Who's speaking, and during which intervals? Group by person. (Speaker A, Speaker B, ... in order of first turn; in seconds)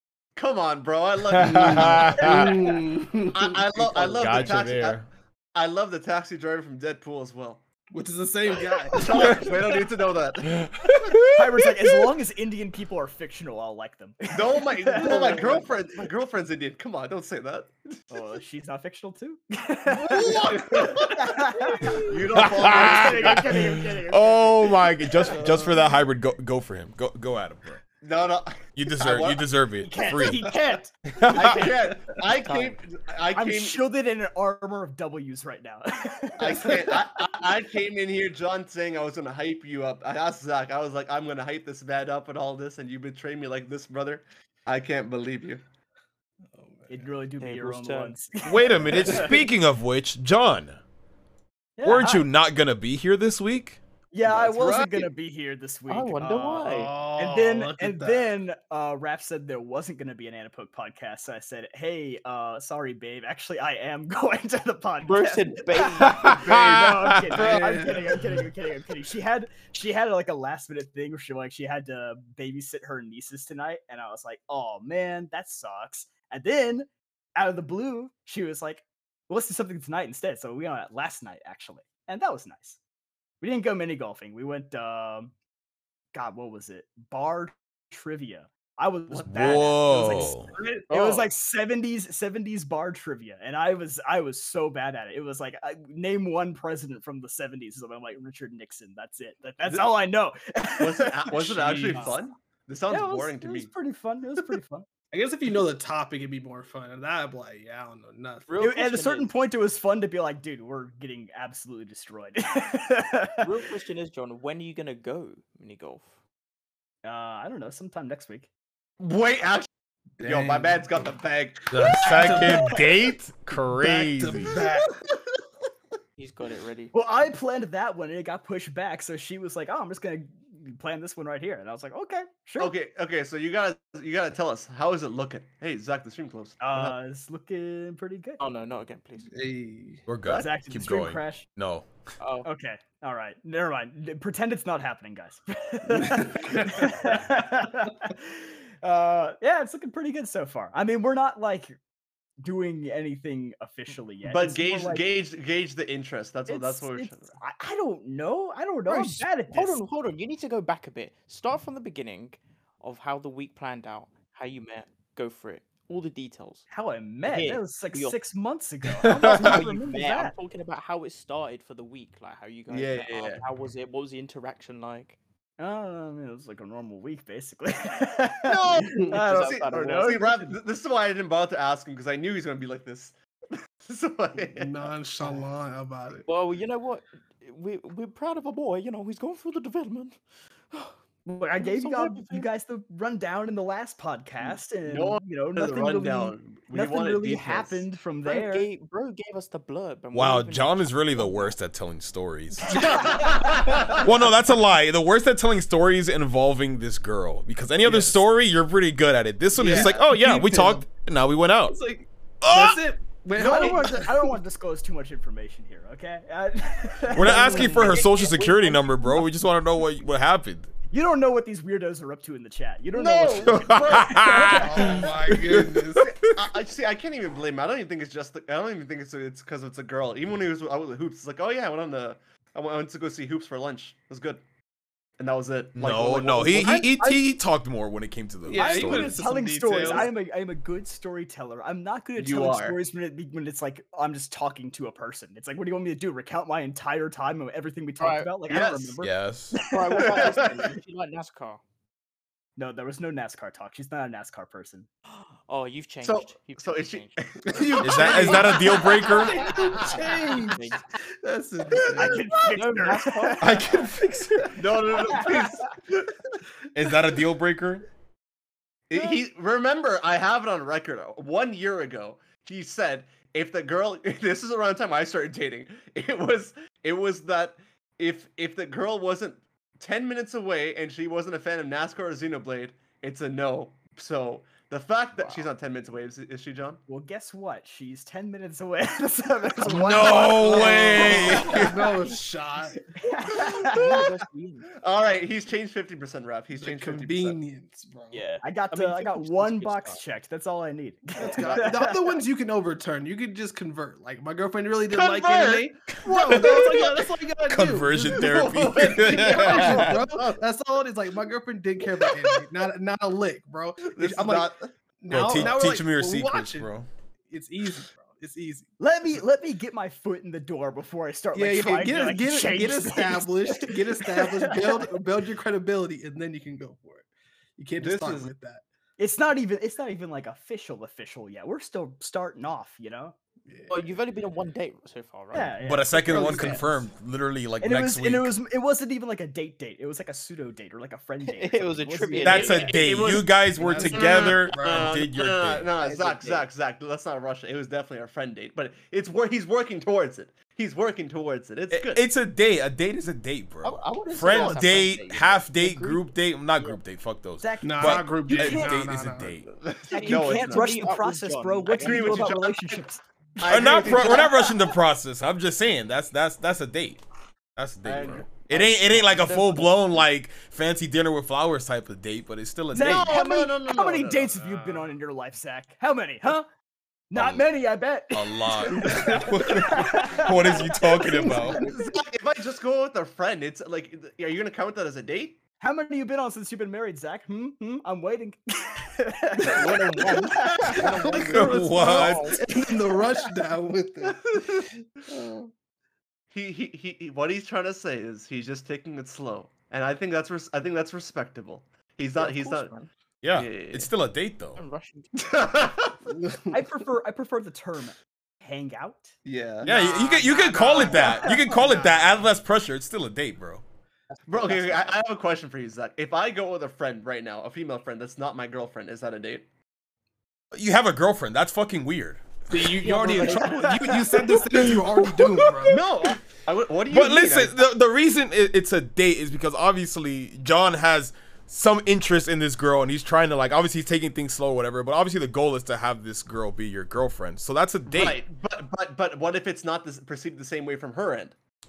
Speaker A: 0.4-2.3, 3.3-7.6, 8.9-11.1, 14.3-18.2, 19.9-23.6, 28.0-29.5, 31.3-33.8, 36.4-45.6, 89.1-89.7, 99.7-100.0, 100.8-103.7, 119.0-119.7, 120.2-121.7, 124.5-125.2, 132.6-136.9, 154.2-157.3, 172.8-173.4, 178.5-184.9, 194.9-197.9, 202.8-204.0, 222.9-225.1, 226.1-234.4, 235.2-237.1, 242.2-242.8, 248.5-248.9, 250.0-250.7, 256.0-259.9, 264.5-266.3, 268.9-286.8, 294.8-297.4, 301.4-301.6, 304.9-307.1, 308.3-310.4, 312.0-312.4, 313.8-314.7, 315.2-315.6, 327.8-328.3, 342.3-343.3, 343.9-352.1, 354.3-354.6, 359.5-360.8, 361.7-362.9, 363.4-364.5, 367.9-369.3, 372.7-374.5, 381.6-385.4, 394.1-394.7, 396.3-402.7, 403.3-403.9, 405.2-406.0, 409.2-409.7, 414.3-419.5, 425.7-427.7, 437.9-441.4
Speaker B: 1.3-2.5, 4.0-5.1, 10.5-11.9, 22.3-27.8, 28.8-30.4, 31.1-31.6, 48.4-50.8, 51.8-53.8, 66.3-67.2, 89.3-90.5, 121.7-124.6, 140.1-141.9, 169.1-169.6, 200.1-203.1, 204.0-211.8, 212.4-212.8, 217.1-220.7, 223.5-226.3, 235.8-239.2, 249.0-249.6, 257.8-259.4, 263.4-264.6, 266.7-267.9, 289.6-291.8, 307.5-310.0, 315.1-316.9, 335.6-338.3, 342.2-345.7, 351.7-359.5, 363.5-367.0, 367.6-373.2, 377.1-377.5, 378.1-381.6, 391.3-392.4, 403.2-404.6, 409.6-413.6, 420.5-422.7, 425.2-425.7, 426.9-438.2
Speaker C: 1.4-4.5, 7.9-9.7, 20.2-20.9, 46.6-47.1, 48.9-49.3, 54.3-55.1, 56.6-58.3, 67.3-68.5, 101.5-102.1, 105.1-108.5, 120.2-121.1, 121.7-122.8, 123.8-125.0, 139.3-140.0, 145.9-147.1, 184.5-186.2, 203.6-204.0, 207.8-208.2, 209.6-210.9, 211.7-214.4, 217.3-218.0, 224.6-226.2, 238.5-240.1, 257.4-260.6, 261.2-262.2, 289.7-292.9, 296.5-298.2, 301.2-316.7, 317.3-319.2, 321.3-327.1, 327.6-328.6, 333.5-333.9, 336.0-336.9, 343.6-344.9, 357.6-359.4, 374.4-374.9, 378.7-379.8, 381.2-382.0, 390.7-394.6, 395.1-395.4, 406.1-406.7, 409.7-412.1, 422.5-425.8
Speaker D: 2.2-2.5, 11.3-15.6, 18.1-25.4, 29.8-31.7, 33.4-36.9, 46.9-49.4, 51.8-52.3, 54.1-82.8, 83.4-85.3, 86.1-102.2, 102.9-104.9, 108.6-113.5, 117.0-118.5, 126.9-132.7, 136.6-138.4, 140.3-141.5, 142.4-151.8, 152.4-155.0, 156.5-159.8, 166.7-170.3, 175.6-180.6, 191.2-198.7, 202.7-203.4, 213.4-218.3, 220.9-225.1, 236.6-237.2, 238.5-250.5, 252.6-254.9, 259.5-260.0, 261.9-263.8, 264.9-265.7, 286.9-291.4, 293.0-294.0, 298.4-302.2, 318.8-324.9, 329.0-333.2, 335.3-336.6, 337.6-342.8, 357.4-358.9, 359.9-363.0, 363.5-364.5, 372.7-376.5, 377.1-381.8, 385.6-391.2, 406.5-409.1, 409.7-411.7, 423.1-424.3
Speaker E: 32.4-32.8, 47.4-48.1, 55.9-56.9, 65.0-66.4, 90.9-91.3, 108.5-109.3, 113.4-116.1, 126.2-126.9, 138.4-139.3, 142.2-142.5, 158.9-166.7, 167.2-168.2, 169.3-175.2, 179.1-180.2, 186.3-190.2, 190.7-191.0, 191.6-192.5, 198.3-201.6, 217.9-218.8, 248.0-248.3, 249.6-251.6, 255.1-257.2, 260.5-260.9, 262.5-263.6, 285.2-285.5, 293.7-294.7, 298.1-300.0, 333.7-335.6, 341.2-342.9, 345.8-346.5, 353.6-356.8, 359.9-362.3, 369.0-369.6, 389.4-392.4, 402.2-402.9, 404.6-405.4, 414.1-415.0, 422.8-423.8